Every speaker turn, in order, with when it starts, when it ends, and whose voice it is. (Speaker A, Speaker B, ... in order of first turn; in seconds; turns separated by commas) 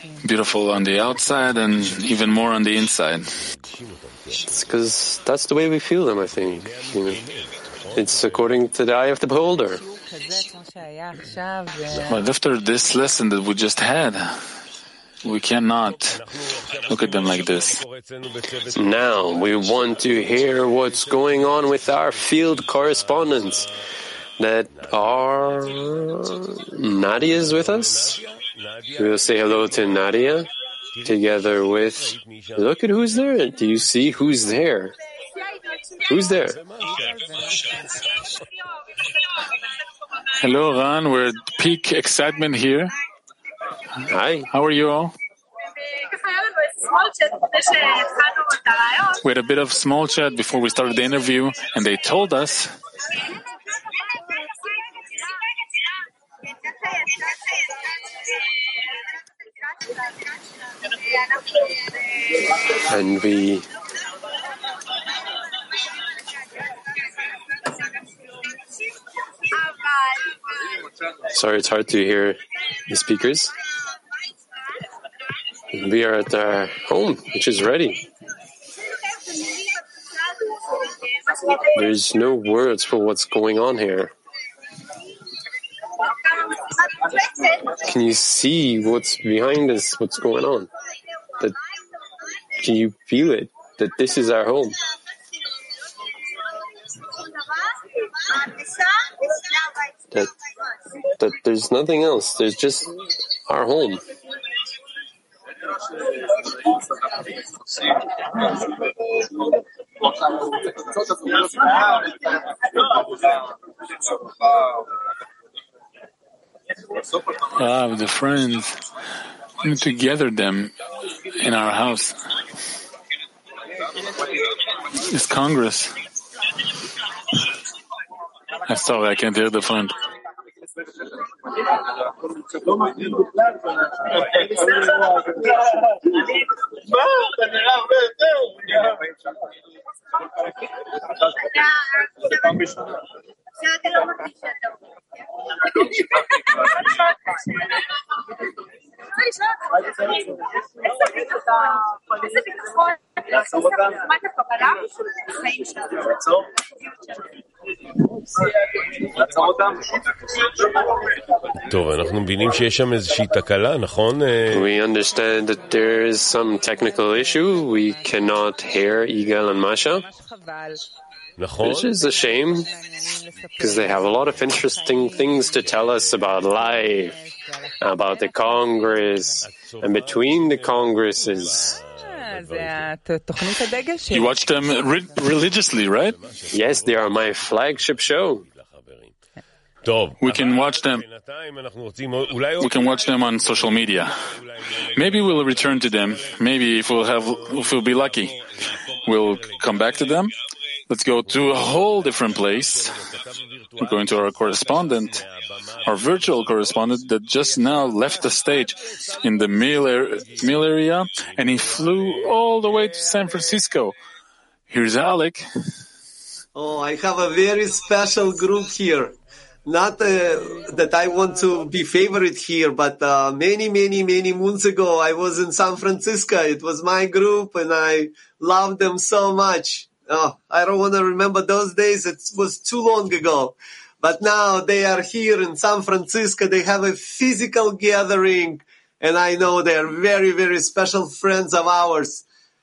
Speaker A: 0.2-3.3, Speaker B: 3.5-4.4, Speaker C: 4.4-7.2, Speaker B: 6.7-8.2, Speaker C: 8.0-9.8, Speaker A: 12.1-14.4, Speaker A: 15.2-16.2, Speaker B: 15.9-19.9, Speaker A: 16.9-17.8, Speaker C: 18.7-23.7, Speaker C: 24.4-28.2, Speaker B: 27.5-30.0, Speaker C: 29.0-30.5, Speaker C: 31.0-34.9, Speaker B: 32.2-32.6, Speaker C: 36.1-36.6, Speaker B: 36.3-37.5, Speaker A: 40.4-42.9, Speaker C: 44.1-44.5, Speaker A: 44.5-45.1, Speaker D: 46.0-49.1, Speaker A: 49.2-52.7, Speaker C: 62.8-63.6, Speaker C: 71.3-73.5, Speaker C: 75.7-78.0, Speaker D: 79.4-79.7, Speaker C: 81.7-84.1, Speaker C: 87.8-90.7, Speaker C: 92.6-94.8, Speaker C: 101.2-102.9, Speaker C: 103.5-104.0, Speaker A: 117.5-118.8, Speaker A: 119.6-120.7, Speaker A: 121.4-122.2, Speaker A: 125.1-125.9, Speaker A: 128.7-129.9, Speaker D: 143.7-144.3, Speaker D: 153.9-154.7, Speaker B: 161.6-164.7, Speaker C: 164.5-170.1, Speaker B: 171.4-171.9, Speaker C: 171.6-172.7, Speaker C: 173.6-177.2, Speaker C: 177.8-181.8, Speaker B: 179.7-180.4, Speaker B: 181.7-182.9, Speaker A: 184.1-186.2, Speaker B: 186.2-187.0, Speaker C: 186.5-188.4, Speaker B: 188.5-189.1, Speaker B: 189.8-193.1, Speaker A: 190.2-191.0, Speaker A: 192.6-194.1, Speaker A: 194.9-198.3, Speaker B: 195.1-195.7, Speaker A: 199.0-200.3, Speaker A: 200.9-203.0, Speaker B: 201.4-203.2, Speaker B: 203.8-205.3, Speaker A: 203.8-205.2, Speaker A: 205.8-213.9, Speaker A: 214.7-215.4, Speaker E: 216.5-219.1, Speaker E: 219.7-242.2